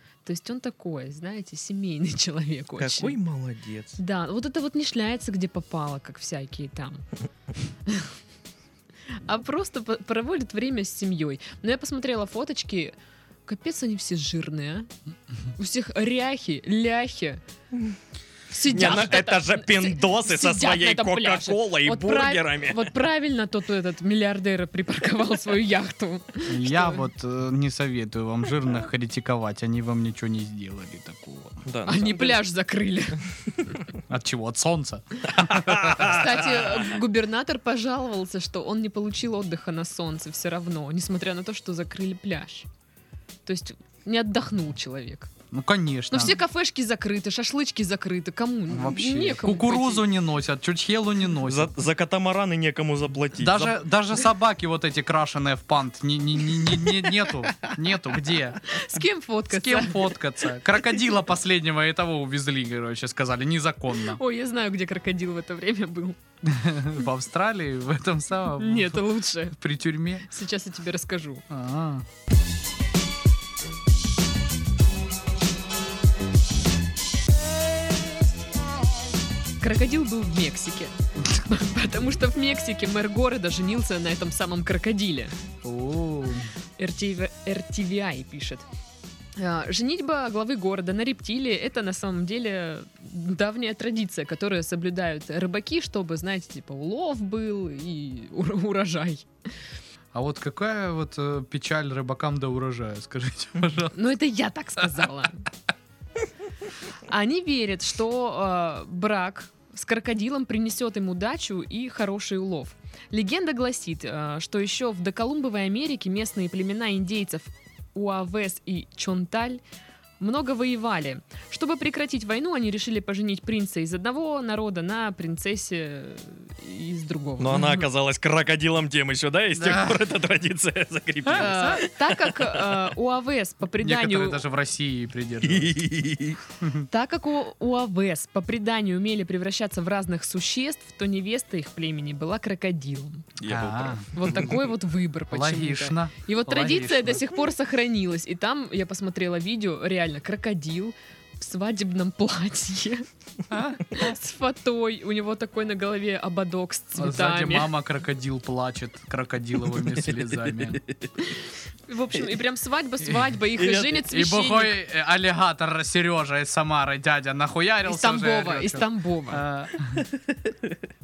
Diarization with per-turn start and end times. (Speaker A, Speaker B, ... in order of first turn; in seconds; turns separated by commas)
Speaker A: 0.2-3.2, Speaker B: 2.8-4.0, Speaker A: 4.0-7.0, Speaker A: 7.8-8.2, Speaker A: 9.1-12.9, Speaker A: 13.4-14.9, Speaker A: 15.6-17.4, Speaker B: 17.7-18.0, Speaker A: 18.5-27.1, Speaker B: 18.7-22.8, Speaker C: 26.5-31.6, Speaker B: 31.6-32.4, Speaker A: 31.9-33.8, Speaker C: 34.1-36.2, Speaker B: 35.3-36.9, Speaker A: 36.0-42.7, Speaker A: 43.4-45.3, Speaker C: 45.5-46.4, Speaker A: 46.1-50.0, Speaker C: 48.7-51.7, Speaker B: 51.5-53.8, Speaker C: 53.4-58.7, Speaker A: 58.6-60.2, Speaker C: 59.5-64.2, Speaker A: 64.1-66.2, Speaker C: 66.4-69.0, Speaker A: 68.6-69.6, Speaker C: 69.6-70.3, Speaker A: 70.2-71.4, Speaker C: 71.5-72.0, Speaker A: 79.6-85.3, Speaker C: 85.6-86.5, Speaker A: 86.8-88.7, Speaker A: 89.4-99.2, Speaker C: 100.1-104.0, Speaker A: 103.9-105.5, Speaker A: 107.0-119.6, Speaker A: 120.2-127.6, Speaker B: 127.4-132.9, Speaker C: 127.5-127.8, Speaker C: 129.6-130.0, Speaker C: 131.3-131.8, Speaker A: 131.3-134.4, Speaker C: 133.8-135.8, Speaker B: 135.4-136.4, Speaker C: 136.6-136.9, Speaker A: 136.9-143.3, Speaker B: 143.4-144.6, Speaker C: 143.4-144.5, Speaker A: 144.1-153.1, Speaker C: 145.3-147.2, Speaker C: 153.5-154.1, Speaker A: 153.8-157.7, Speaker C: 156.9-160.8, Speaker B: 159.8-161.1, Speaker A: 161.2-164.8, Speaker B: 163.5-164.0, Speaker C: 163.9-170.1, Speaker A: 167.8-169.4, Speaker B: 170.0-170.8